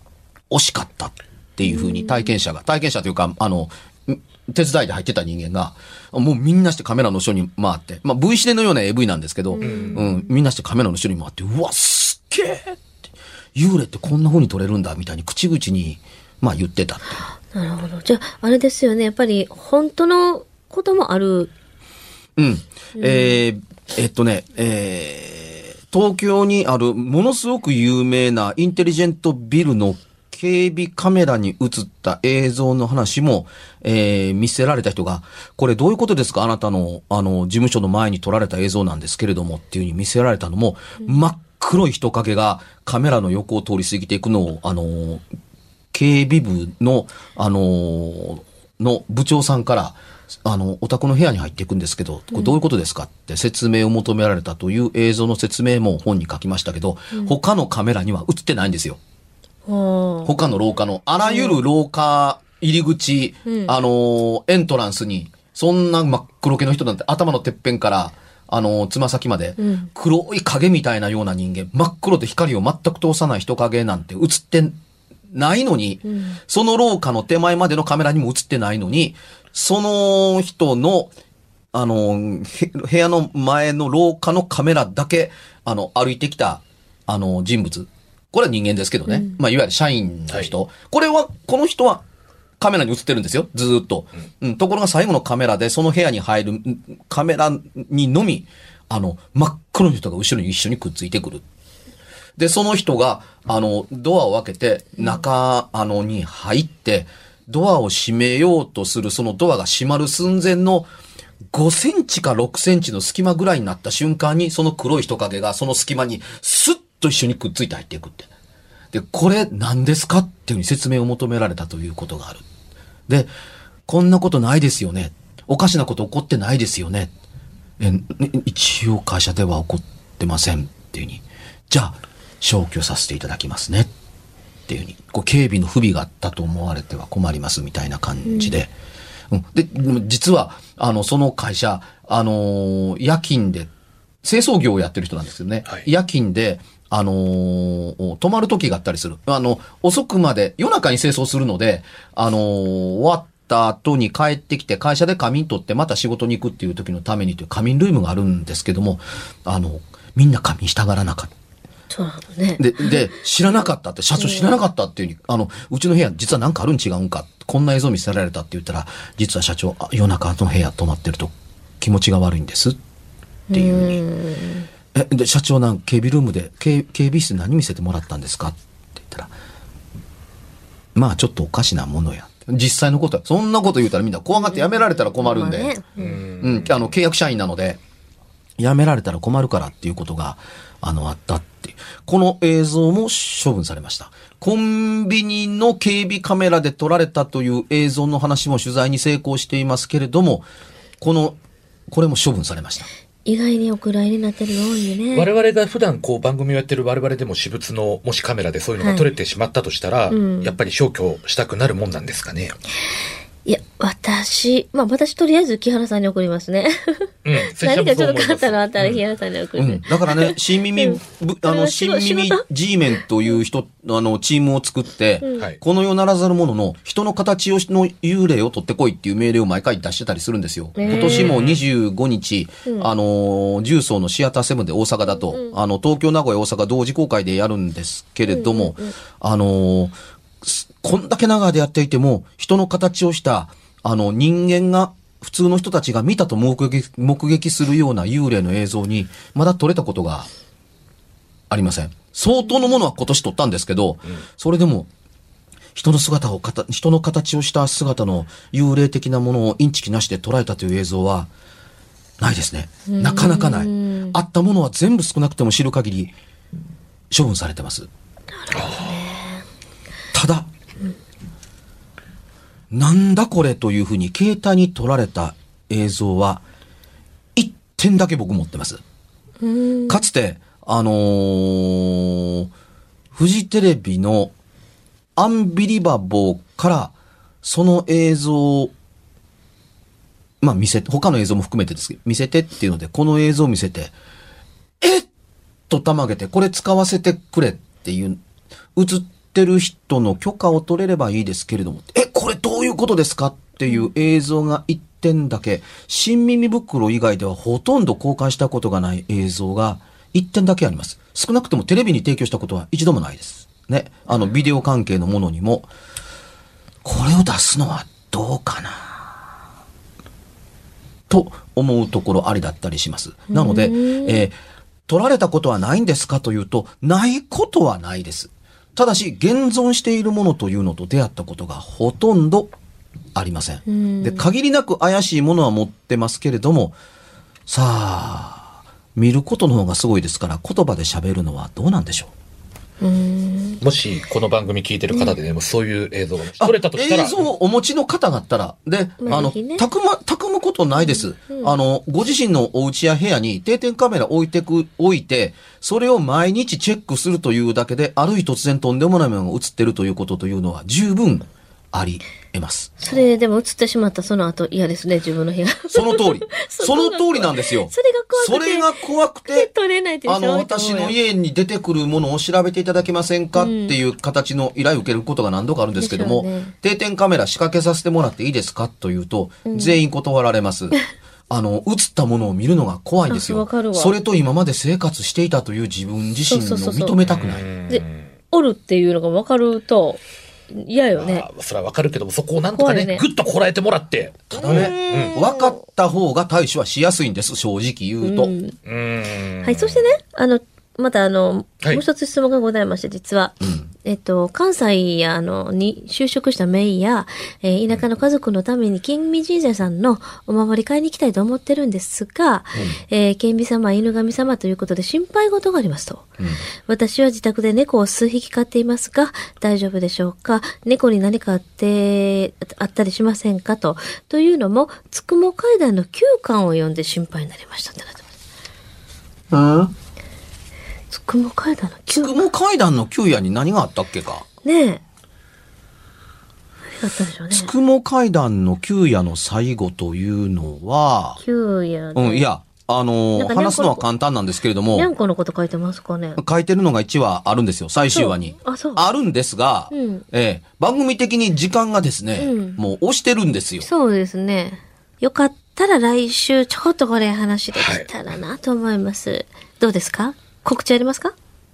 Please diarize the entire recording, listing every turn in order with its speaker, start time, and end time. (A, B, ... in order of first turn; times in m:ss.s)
0:00.5-0:12.8 A
0:01.6-0:02.3 B
0:09.5-0:10.0 B
0:09.6-0:10.1 C
0:13.5-0:17.2 A
0:17.5-0:21.5 B
0:22.4-0:45.2 A
0:23.0-0:23.3 B
0:45.9-0:59.0 A
0:59.7-1:00.3 B
1:00.2-1:14.7 A
1:01.2-1:01.6 B
1:03.4-1:03.7 B
1:09.6-1:09.9 B
1:15.3-1:21.1 A
1:16.0-1:16.4 B
1:21.7-1:32.0 A
1:29.1-1:29.4 B
1:32.6-1:41.4 A
1:42.4-1:50.9 A
1:51.5-1:58.3 A
1:58.9-2:02.4 A
2:03.9-2:07.1 A
2:07.8-2:13.9 A
2:14.7-2:18.7 A
2:18.3-2:18.5 B
2:19.3-2:23.7 A
2:24.2-2:41.3 A
2:41.9-2:43.0 B
2:42.6-2:52.8 A
2:44.2-2:44.5 B
2:53.5-2:54.7 B
2:53.5-2:54.0 A
2:54.9-2:59.3 A
3:00.9-3:05.8 A
3:04.4-3:06.2 B
3:06.0-3:06.9 C
3:06.4-3:07.8 A
3:08.6-3:20.5 A
3:21.0-3:21.4 A
3:21.9-3:22.9 A
3:23.2-3:25.3 B
3:25.1-3:32.6 C
3:30.1-3:30.5 B
3:33.4-3:42.4 B
3:37.2-3:39.0 C
3:39.6-4:10.3 A
3:50.7-3:51.3 B
3:50.8-3:51.6 C
3:58.3-3:58.9 B
4:11.5-4:14.9 A
4:15.8-4:21.3 A
4:22.2-4:26.1 A
4:22.9-4:24.2 B
4:27.1-4:27.9 A
4:28.4-4:29.4 B
4:28.5-4:28.9 C
4:30.1-4:30.5 A
4:32.7-4:36.4 A
4:37.4-4:38.8 A
4:39.4-4:40.0 B
4:39.9-4:42.5 A
4:43.1-4:44.3 A
4:45.2-4:48.7 A
4:50.4-4:53.9 A
4:54.8-4:55.1 A
4:55.7-4:58.2 A
4:58.8-5:15.7 A
5:16.8-5:19.2 A
5:21.1-5:24.4 A
5:23.3-5:24.2 B
5:24.9-5:32.5 A
5:33.1-5:36.8 A
5:33.7-5:34.3 B
5:37.5-5:42.1 A
5:42.8-5:43.6 B
5:43.6-5:47.2 C
5:46.4-6:02.8 A
5:49.0-5:49.6 B
5:50.8-5:51.5 B
6:02.8-6:08.7 B
6:05.7-6:09.5 A
6:09.2-6:11.0 B
6:10.0-6:20.8 A
6:13.4-6:13.8 B
6:15.8-6:16.5 B
6:19.4-6:19.8 B
6:21.3-6:27.5 A
6:23.1-6:23.9 B
6:26.2-6:27.0 B
6:27.0-6:28.0 C
6:27.7-6:30.0 B
6:30.5-6:31.2 B
6:31.0-6:35.2 C
6:32.6-6:33.0 B
6:34.4-6:35.6 B
6:34.4-6:38.3 A
6:38.0-6:38.6 B
6:38.6-6:39.8 C
6:39.4-6:56.1 B
6:56.7-7:08.1 B
7:09.3-7:09.7 A
7:10.9-7:12.2 B
7:11.9-7:14.2 A
7:14.4-7:14.8 B
7:16.8-7:17.5 B
7:17.3-7:21.2 A
7:21.2-7:22.2 B
7:21.9-7:24.9 A
7:23.2-7:23.8 B
7:24.7-7:26.2 B
7:26.2-7:33.7 A
7:27.9-7:28.8 B
7:29.7-7:30.0 B
7:32.2-7:32.6 B
7:33.6-7:41.1 B
7:37.5-7:37.9 C